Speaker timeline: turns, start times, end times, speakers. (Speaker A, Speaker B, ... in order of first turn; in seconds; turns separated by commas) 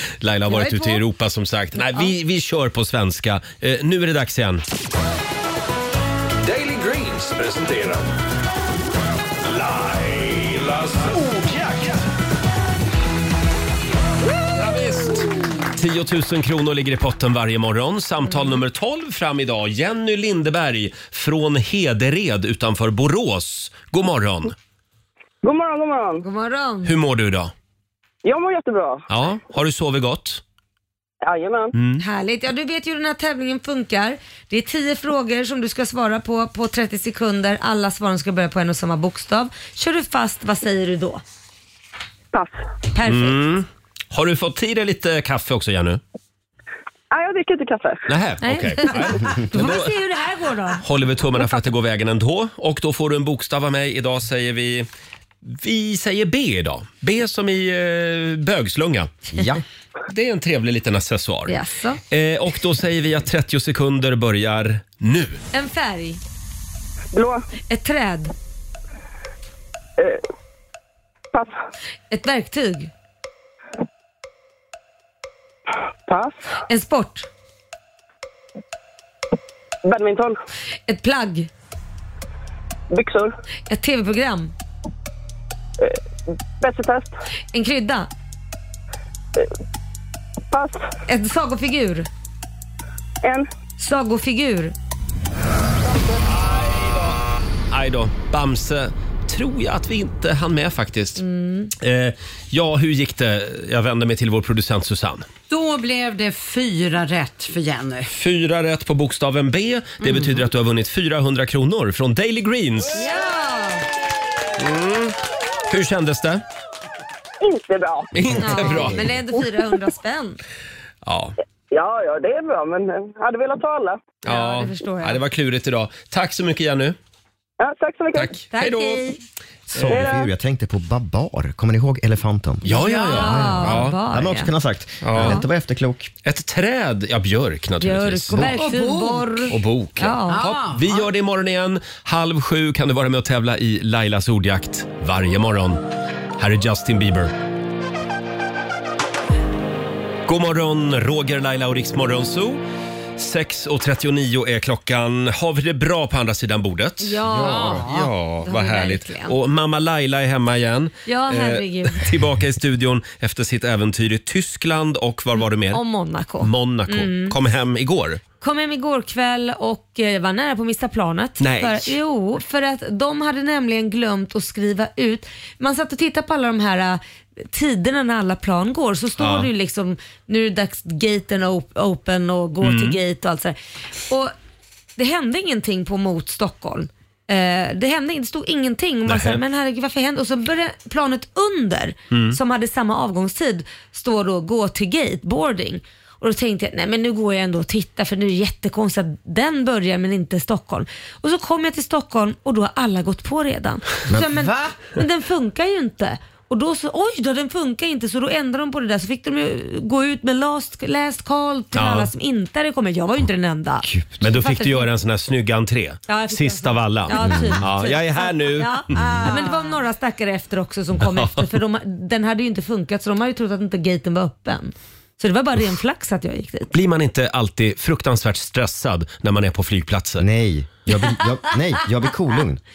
Speaker A: 0.2-4.6, Speaker B: 0.5-1.0, Speaker C: 6.4-8.1, Speaker C: 9.4-12.1, Speaker A: 14.6-24.5, Speaker D: 25.4-26.2, Speaker B: 26.2-26.9, Speaker A: 26.8-27.5, Speaker D: 28.2-29.0, Speaker A: 29.1-30.4, Speaker D: 31.2-31.7, Speaker A: 31.7-32.0, Speaker B: 32.0-41.2, Speaker B: 42.9-43.4, Speaker A: 43.0-46.0, Speaker D: 47.1-48.0, Speaker A: 48.1-49.9, Speaker B: 48.4-50.8, Speaker A: 50.8-54.9, Speaker A: 55.5-59.3, Speaker E: 59.3-59.6, Speaker A: 60.1-61.5, Speaker B: 61.5-62.0, Speaker A: 62.1-65.4, Speaker B: 65.5-66.2, Speaker D: 67.1-67.4, Speaker B: 67.7-68.3, Speaker B: 72.1-72.9, Speaker D: 76.1-76.5, Speaker B: 76.7-77.3, Speaker D: 79.8-80.4, Speaker B: 80.9-81.5, Speaker D: 82.9-83.3, Speaker B: 83.7-84.5, Speaker D: 86.6-87.1, Speaker B: 87.5-88.1, Speaker D: 90.5-90.8, Speaker B: 91.1-92.1, Speaker B: 93.8-94.7, Speaker A: 96.5-97.1, Speaker A: 97.7-101.2, Speaker B: 101.2-101.7, Speaker A: 101.8-105.3, Speaker F: 105.5-108.1, Speaker A: 108.1-113.1, Speaker B: 112.9-113.8, Speaker A: 114.6-115.2, Speaker A: 115.7-116.4, Speaker D: 117.4-118.1, Speaker A: 118.1-119.1, Speaker B: 118.4-120.4, Speaker A: 121.0-121.3, Speaker D: 121.7-124.0, Speaker A: 124.2-127.0, Speaker B: 124.2-125.2, Speaker D: 127.6-128.3, Speaker A: 128.1-129.0, Speaker B: 128.5-129.2, Speaker E: 129.7-136.1, Speaker D: 129.9-130.2, Speaker A: 132.6-134.0, Speaker B: 132.7-134.5, Speaker A: 135.0-135.4, Speaker B: 135.2-135.4, Speaker A: 136.2-138.5, Speaker B: 137.8-140.4, Speaker F: 138.3-139.4, Speaker A: 139.5-145.8, Speaker F: 140.3-141.1, Speaker A: 146.4-147.3, Speaker A: 150.2-152.6, Speaker A: 153.2-165.8, Speaker B: 157.0-157.9, Speaker F: 157.3-158.1, Speaker B: 158.4-159.3, Speaker B: 161.1-162.1, Speaker B: 165.3-167.3, Speaker A: 166.4-168.2, Speaker B: 168.4-183.6, Speaker A: 171.4-172.0, Speaker A: 179.2-179.5, Speaker A: 182.6-183.0, Speaker B: 185.0-214.9, Speaker A: 189.1-189.4, Speaker A: 192.1-192.4, Speaker F: 204.3-204.8, Speaker A: 211.7-212.1, Speaker E: 213.8-214.2, Speaker A: 214.2-219.3, Speaker B: 216.1-226.7, Speaker E: 217.2-217.6, Speaker F: 218.9-219.7, Speaker A: 221.0-221.4, Speaker A: 226.7-230.2, Speaker E: 230.2-232.6